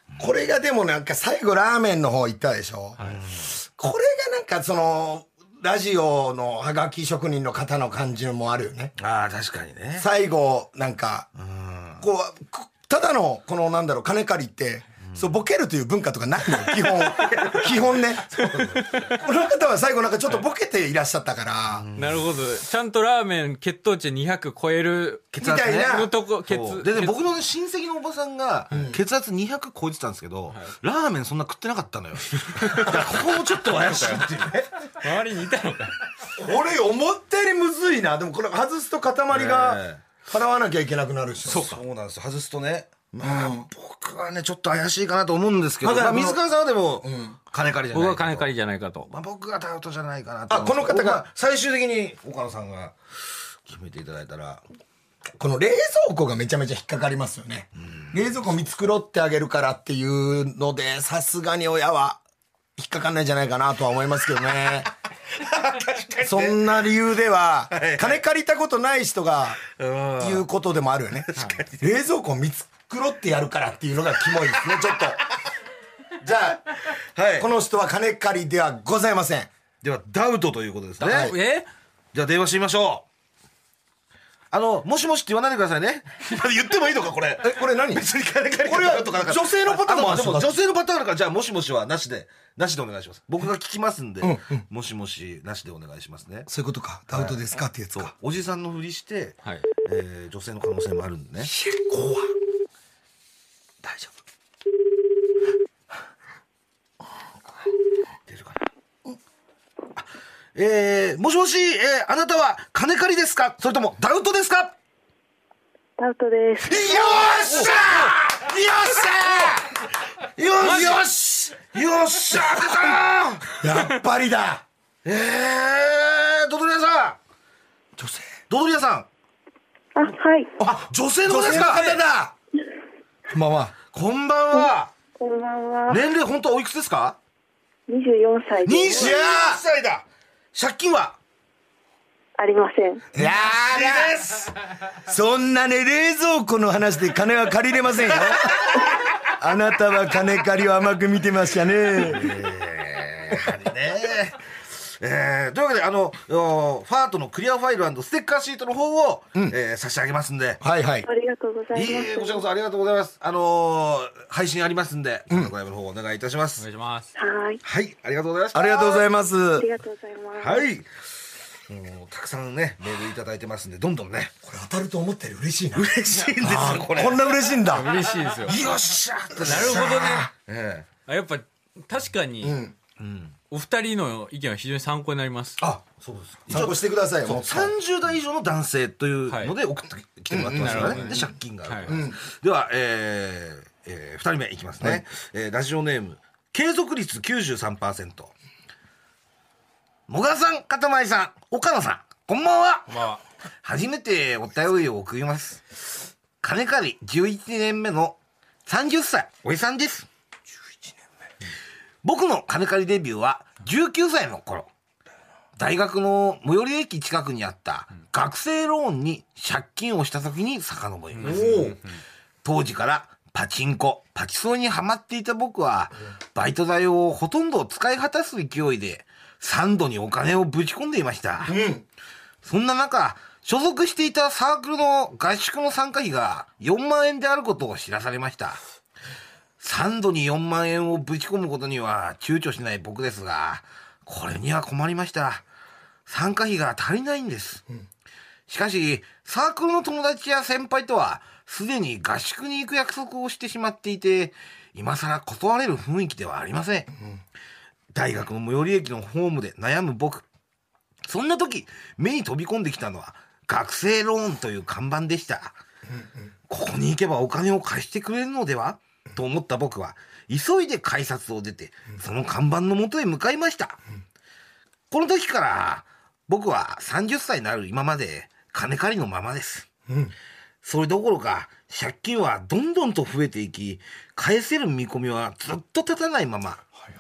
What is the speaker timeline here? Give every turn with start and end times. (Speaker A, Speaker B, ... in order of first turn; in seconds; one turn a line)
Speaker A: 0.2-8.9
Speaker B: 3.0-3.5
Speaker B: 9.0-10.1
Speaker A: 10.0-11.3
Speaker B: 11.4-12.0
Speaker A: 12.0-21.9
Speaker B: 15.0-15.3
Speaker B: 17.1-19.1
Speaker B: 21.7-22.2
Speaker C: 22.0-27.2
Speaker A: 25.4-26.1
Speaker B: 25.4-34.7
Speaker A: 28.7-29.0
Speaker C: 32.5-33.0
Speaker C: 35.0-36.0
Speaker A: 36.4-41.8
Speaker B: 39.3-40.0
Speaker B: 41.5-48.5
Speaker A: 43.2-43.7
Speaker A: 45.8-46.4
Speaker A: 47.0-47.4
Speaker C: 47.9-49.1
Speaker B: 49.1-53.0
Speaker A: 50.5-51.2
Speaker B: 53.7-54.6
Speaker A: 55.4-62.2
Speaker B: 57.8-58.1
Speaker A: 62.8-64.9
Speaker B: 65.4-66.9
Speaker A: 66.2-69.6
Speaker B: 67.7-68.2
Speaker B: 69.7-70.5
Speaker A: 70.2-75.2
Speaker B: 71.3-71.9
Speaker A: 76.2-76.7
Speaker B: 77.2-77.5
Speaker A: 77.4-79.5
Speaker B: 79.8-81.3
Speaker C: 81.0-81.7
Speaker A: 81.0-81.3
Speaker B: 82.1-83.0
Speaker B: 84.5-96.5
Speaker A: 87.4-88.1
Speaker A: 88.7-90.6
Speaker A: 94.2-94.6
Speaker A: 96.5-98.1
Speaker B: 97.1-97.4
Speaker B: 97.9-101.5
Speaker A: 101.4-102.3
Speaker A: 103.8-104.2
Speaker B: 108.3-108.6
Speaker B: 110.5-114.8
Speaker D: 116.0-117.4
Speaker A: 116.6-119.7
Speaker B: 116.7-119.6
Speaker B: 120.2-123.5
Speaker C: 120.6-121.0
Speaker A: 123.6-124.6
Speaker B: 125.0-127.2
Speaker A: 128.0-128.3
Speaker B: 128.5-129.1
Speaker D: 130.0-130.5
Speaker A: 130.6-132.3
Speaker B: 130.6-132.0
Speaker A: 133.3-133.7
Speaker B: 133.9-134.9
Speaker D: 134.5-136.0
Speaker B: 135.9-137.2
Speaker D: 137.9-139.2
Speaker B: 138.6-141.2
Speaker A: 139.0-139.6
Speaker D: 142.4-143.1
Speaker A: 143.1-144.2
Speaker B: 143.2-144.6
Speaker A: 145.1-152.3
Speaker B: 148.5-148.8
Speaker B: 152.0-160.6
Speaker A: 160.6-161.1
Speaker D: 161.1-162.4
Speaker B: 161.7-166.6
Speaker C: 166.6-167.1
Speaker D: 167.2-167.6
Speaker B: 167.6-169.1
Speaker A: 168.5-169.7
Speaker D: 169.6-170.6
Speaker B: 170.4-170.8
Speaker B: 171.7-174.3
Speaker A: 174.4-177.9
Speaker B: 175.8-177.4
Speaker C: 177.7-178.6
Speaker B: 178.3-180.9
Speaker C: 179.4-180.3
Speaker A: 179.4-180.3
Speaker C: 181.1-182.6
Speaker A: 182.4-182.7
Speaker B: 183.0-183.3
Speaker C: 183.5-185.6
Speaker B: 185.6-198.3
Speaker A: 186.5-187.7
Speaker C: 189.3-189.5
Speaker A: 190.3-191.3
Speaker C: 190.6-192.0
Speaker A: 191.9-192.2
Speaker B: 200.1-203.1
Speaker C: 202.9-203.2
Speaker B: 203.6-205.7
Speaker B: 206.4-210.1
Speaker B: 212.0-214.7
Speaker B: 215.6-221.8
Speaker C: 221.2-222.0
Speaker A: 221.3-221.7
Speaker B: 222.4-231.6
Speaker A: 231.4-231.8
Speaker B: 232.4-238.6
Speaker B: 239.6-245.4
Speaker B: 246.1-247.6
Speaker B: 248.5-256.9
Speaker B: 257.9-260.2
Speaker B: 261.1-265.6
Speaker B: 266.5-273.8
Speaker B: 274.9-279.7
Speaker A: 279.9-280.1
Speaker B: 280.6-286.6